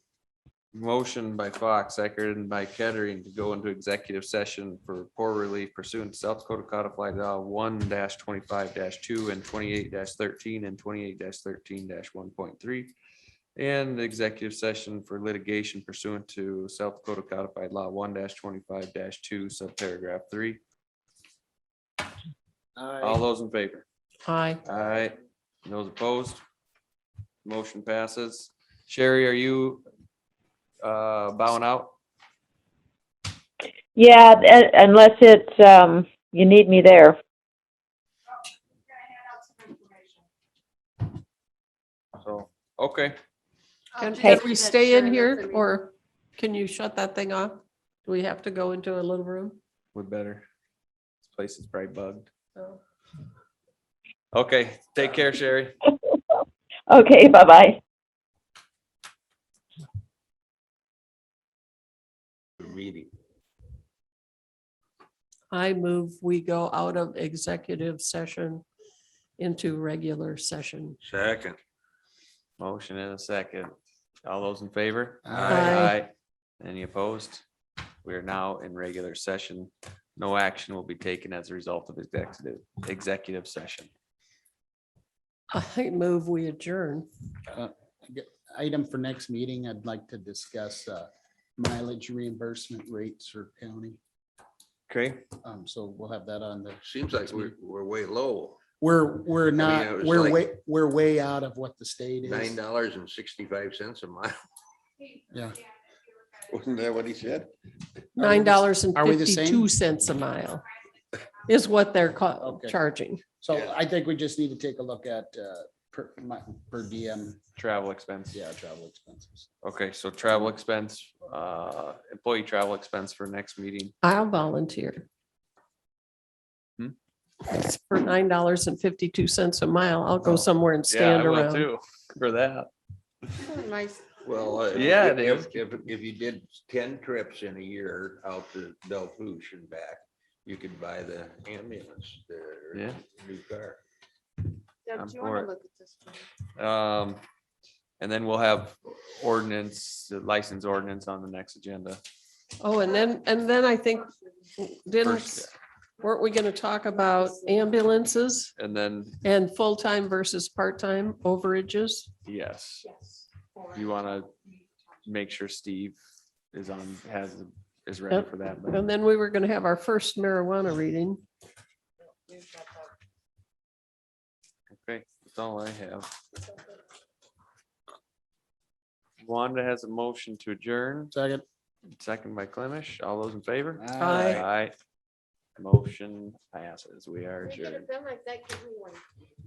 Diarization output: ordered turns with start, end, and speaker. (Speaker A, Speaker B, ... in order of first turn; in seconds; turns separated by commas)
Speaker A: 0.7-12.9, Speaker A: 13.6-20.6, Speaker B: 22.8-23.2, Speaker A: 23.0-23.9, Speaker C: 24.2-24.6, Speaker A: 24.6-25.1, Speaker A: 25.6-26.4, Speaker A: 27.4-29.8, Speaker A: 30.8-31.9, Speaker D: 34.0-37.2, Speaker A: 42.2-43.2, Speaker E: 44.0-45.7, Speaker C: 44.0-49.6, Speaker A: 49.9-50.5, Speaker A: 51.2-52.3, Speaker A: 54.3-55.7, Speaker D: 56.9-57.8, Speaker F: 62.6-63.1, Speaker C: 65.5-68.7, Speaker C: 69.4-71.0, Speaker F: 71.0-71.6, Speaker A: 72.6-73.7, Speaker A: 74.2-77.4, Speaker B: 75.3-75.6, Speaker C: 75.5-76.0, Speaker A: 78.0-83.9, Speaker C: 85.5-87.1, Speaker B: 87.5-94.0, Speaker A: 94.9-95.2, Speaker B: 95.4-97.5, Speaker F: 96.8-98.6, Speaker B: 98.8-102.6, Speaker F: 99.6-100.4, Speaker F: 102.2-104.4, Speaker B: 105.3-105.6, Speaker F: 106.4-107.5, Speaker B: 108.2-109.7, Speaker C: 108.2-110.7, Speaker C: 111.5-113.2, Speaker B: 112.4-112.8, Speaker B: 113.4-117.4, Speaker A: 117.6-118.4, Speaker B: 118.3-119.5, Speaker A: 119.6-123.9, Speaker C: 124.0-125.1, Speaker C: 127.4-131.7, Speaker A: 130.2-132.7, Speaker E: 133.4-134.7, Speaker F: 134.2-143.8, Speaker A: 134.7-135.5, Speaker E: 144.9-146.2, Speaker A: 144.9-145.5, Speaker A: 146.6-147.2, Speaker A: 148.0-152.0, Speaker C: 152.6-155.5, Speaker A: 155.0-155.5, Speaker C: 156.0-158.5, Speaker A: 158.6-159.2, Speaker C: 159.2-162.1, Speaker A: 162.2-162.9, Speaker A: 163.7-164.3, Speaker A: 165.1-166.0, Speaker A: 166.5-168.8, Speaker C: 168.1-171.2, Speaker E: 172.3-172.7, Speaker A: 174.7-176.1, Speaker A: 179.2-181.1, Speaker B: 181.1-181.4, Speaker A: 182.0-184.7, Speaker B: 183.8-184.5, Speaker C: 184.0-184.4, Speaker A: 185.6-187.9, Speaker E: 187.4-189.0